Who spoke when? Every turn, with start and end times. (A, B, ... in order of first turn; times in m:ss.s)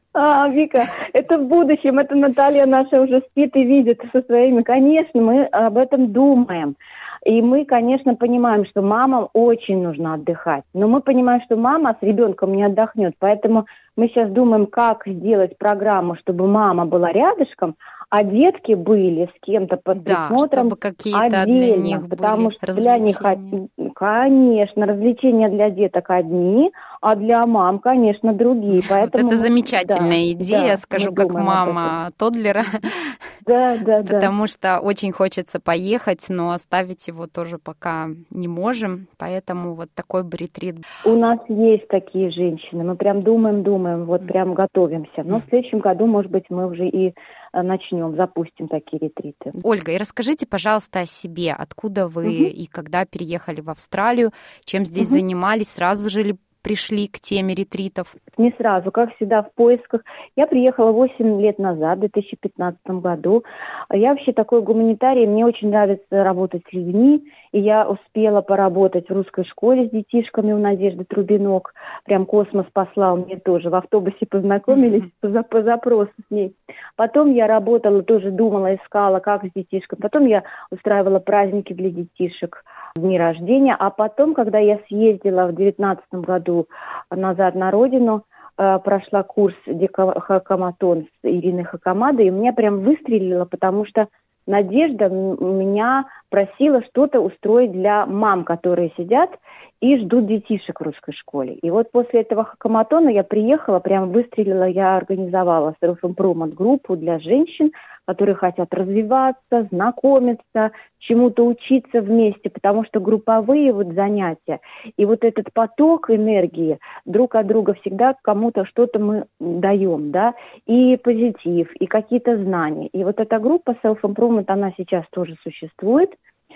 0:00.1-0:31.9 A
0:19.9-0:23.5 B
0:28.8-0:33.2 B
0:33.4-0:34.3 A
0:34.0-0:40.8 B
0:41.0-0:49.5 A
0:49.6-0:58.1 B
0:58.4-2:06.1 A